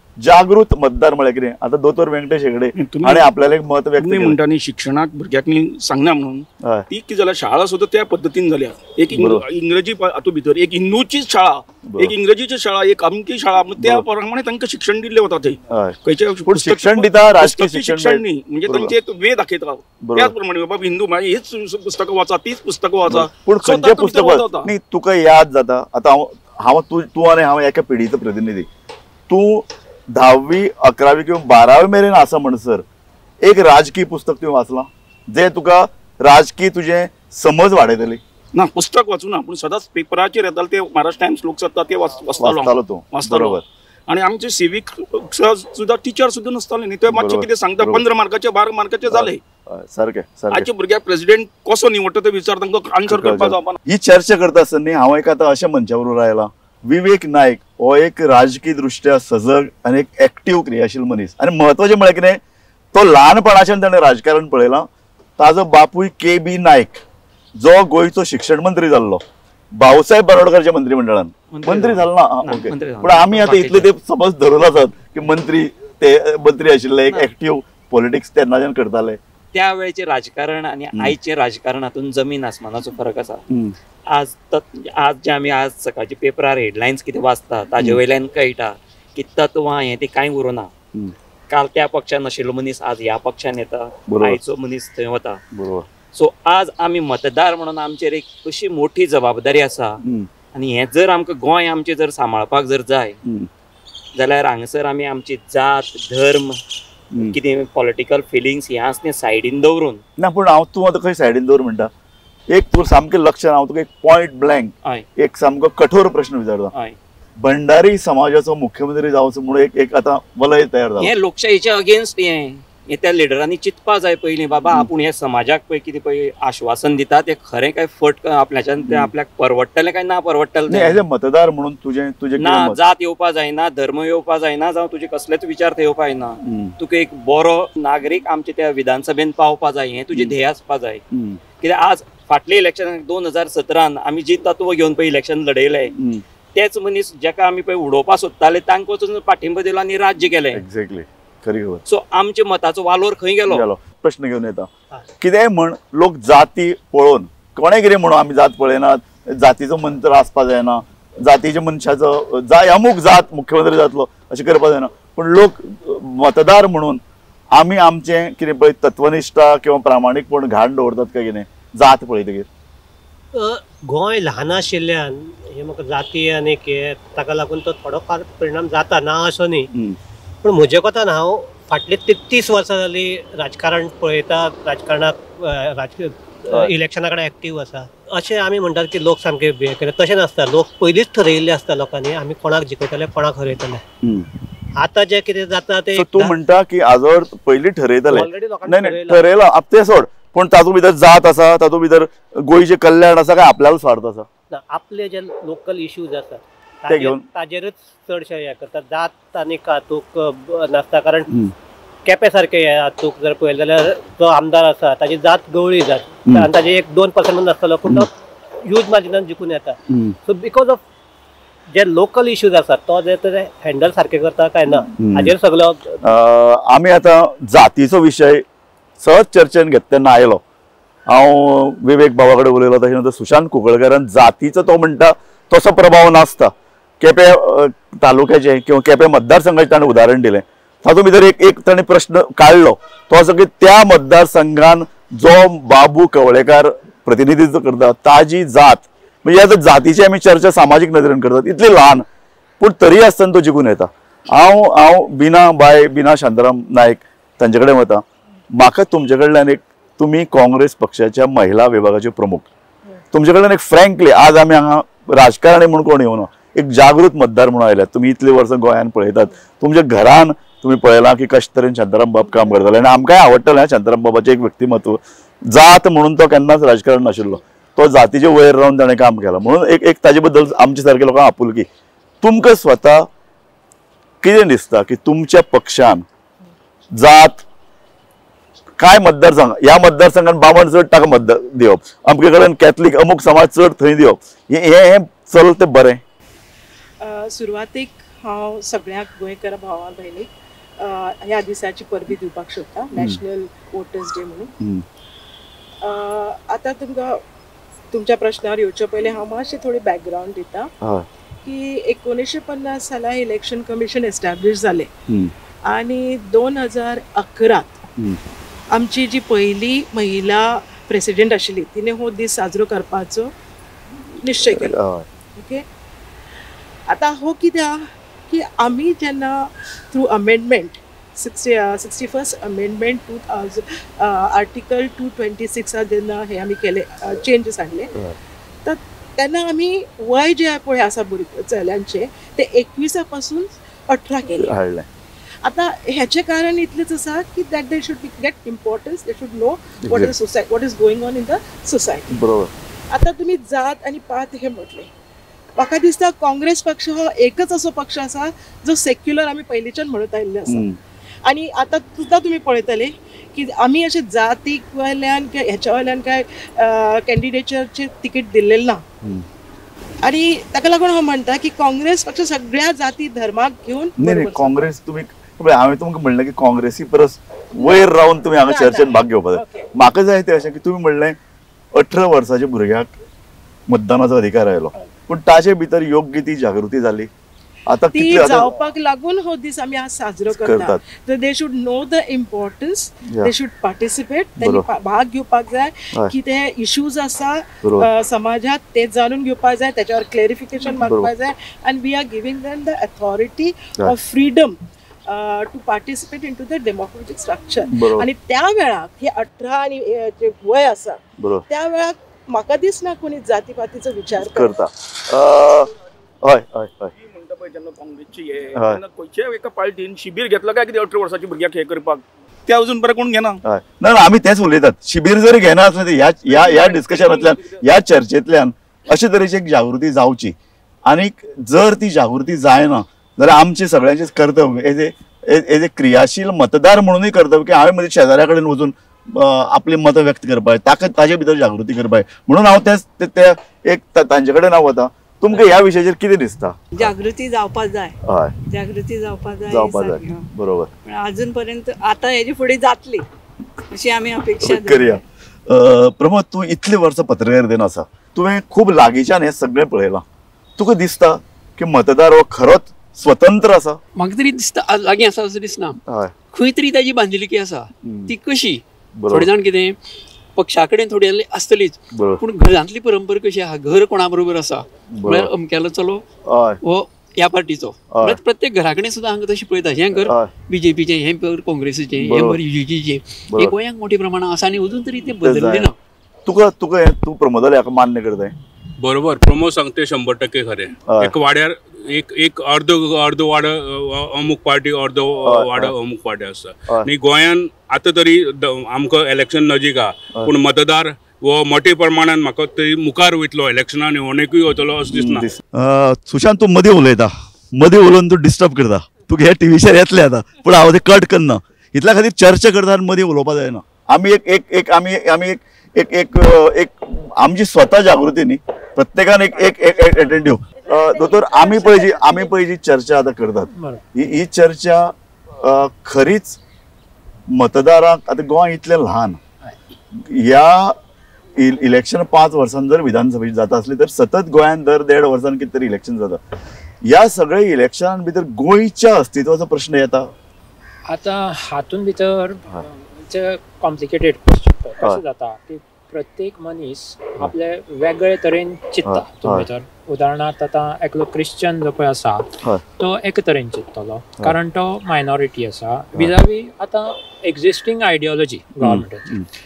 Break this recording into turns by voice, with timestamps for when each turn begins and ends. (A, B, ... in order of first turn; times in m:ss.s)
0:00.2-0:04.4 A
0:02.8-0:03.3 B
0:04.0-0:24.7 B
0:06.6-0:06.8 A
0:09.1-0:09.4 A
0:11.8-0:12.1 A
0:13.8-0:14.0 A
0:15.7-0:18.9 A
0:20.0-0:20.3 A
0:23.1-0:28.7 A
0:29.3-0:32.8 A
0:33.4-0:38.2 A
0:38.5-0:49.4 B
0:42.4-0:43.6 A
0:47.1-0:48.0 A
0:49.1-0:50.7 A
0:50.5-0:53.8 B
0:53.1-1:02.4 A
1:02.9-1:07.0 A
1:07.6-1:09.2 A
1:09.7-1:19.2 A
1:11.5-1:13.9 C
1:19.5-1:23.4 C
1:23.5-1:23.8 A
1:24.1-1:30.7 C
1:31.5-1:35.4 C
1:34.1-1:34.4 A
1:35.5-1:35.9 A
1:36.1-1:40.0 C
1:40.0-1:40.3 A
1:40.5-1:43.2 C
1:44.1-1:46.6 C
1:47.3-1:50.0 C
1:50.2-1:51.9 A
1:52.5-1:56.7 A
1:57.4-2:01.1 A
2:01.0-2:11.0 C
2:10.7-2:12.8 A
2:12.4-2:21.0 C
2:16.4-2:16.8 A
2:21.1-2:21.4 A
2:21.6-2:25.9 C
2:26.0-2:26.2 A
2:26.5-2:30.6 C
2:30.5-2:31.8 A
2:31.9-2:33.6 C
2:33.5-2:47.0 A
2:47.5-2:52.5 A
2:53.3-2:59.7 D
2:59.7-3:00.0 A
3:00.4-3:13.8 D
3:14.0-3:14.3 A
3:14.8-3:16.4 D
3:15.9-3:24.3 A
3:18.1-3:19.2 D
3:24.5-3:31.4 D
3:26.9-3:27.2 A
3:31.3-3:31.5 A
3:32.0-3:40.8 D
3:37.8-3:38.1 A
3:39.9-3:40.2 A
3:41.7-3:46.1 D
3:44.9-3:45.3 A
3:46.0-3:48.4 A
3:49.0-3:50.4 A
3:51.1-4:12.0 A
4:12.6-4:22.5 A
4:23.1-4:41.7 A
4:42.2-4:43.1 A
4:44.2-4:46.0 A
4:46.9-4:47.4 A
4:48.8-4:56.0 A
4:57.0-5:04.5 E
5:05.8-5:07.2 E
5:07.9-5:10.7 E
5:10.8-5:11.1 A
5:11.4-5:14.9 E
5:15.7-5:17.8 E
5:18.7-5:23.3 E
5:24.2-5:24.8 E
5:24.4-5:25.0 A
5:25.3-5:25.6 E
5:26.9-5:37.9 E
5:38.6-5:44.6 E
5:44.4-5:44.9 A
5:45.4-5:52.2 E
5:49.8-5:50.1 A
5:52.1-5:52.5 A
5:52.9-5:54.9 E
5:55.6-6:00.6 E
6:00.5-6:00.8 A
6:01.2-6:08.8 E
6:10.0-6:14.6 E
6:14.0-6:21.2 A
6:17.6-6:17.9 E
6:18.4-6:19.7 E
6:21.7-6:22.9 A
6:23.7-6:27.1 A
6:27.7-6:28.5 A
6:27.9-6:54.5 E
6:30.3-6:30.8 A
6:34.4-6:34.7 A
6:40.8-6:41.1 A
6:47.7-6:48.1 A
6:51.2-6:51.4 A
6:54.2-6:55.7 A
6:56.2-6:56.9 A
6:56.9-7:03.4 B
6:58.5-6:58.8 A
7:03.4-7:26.9 A
7:06.3-7:07.6 B
7:25.3-7:25.6 F
7:26.7-7:28.0 F
7:28.0-7:28.4 A
7:28.5-7:30.3 F
7:29.5-7:30.7 A
7:30.8-7:33.0 F
7:33.7-7:35.0 F
7:34.4-7:40.0 A
7:40.6-7:43.8 A
7:44.0-7:45.8 G
7:45.8-7:46.1 A
7:46.3-7:49.8 G
7:47.8-7:48.1 A
7:49.0-7:49.3 A
7:50.4-7:56.0 G
7:51.9-7:52.2 A
7:54.9-7:55.3 A
7:56.2-7:56.6 A
7:56.6-8:05.7 G
7:57.9-7:58.2 A
8:00.0-8:00.3 A
8:02.0-8:02.4 A
8:03.3-8:03.5 A
8:05.2-8:05.7 A
8:06.2-8:08.3 A
8:08.8-8:25.3 H
8:10.9-8:11.1 A
8:15.2-8:15.7 A
8:24.9-8:46.4 A
8:40.7-8:42.3 E
8:43.5-8:43.8 I
8:47.3-8:49.2 A
8:49.9-8:50.8 A
8:51.4-8:56.2 A
8:56.8-9:00.1 A
9:00.9-9:19.1 I
9:08.8-9:09.5 A
9:18.6-9:19.2 A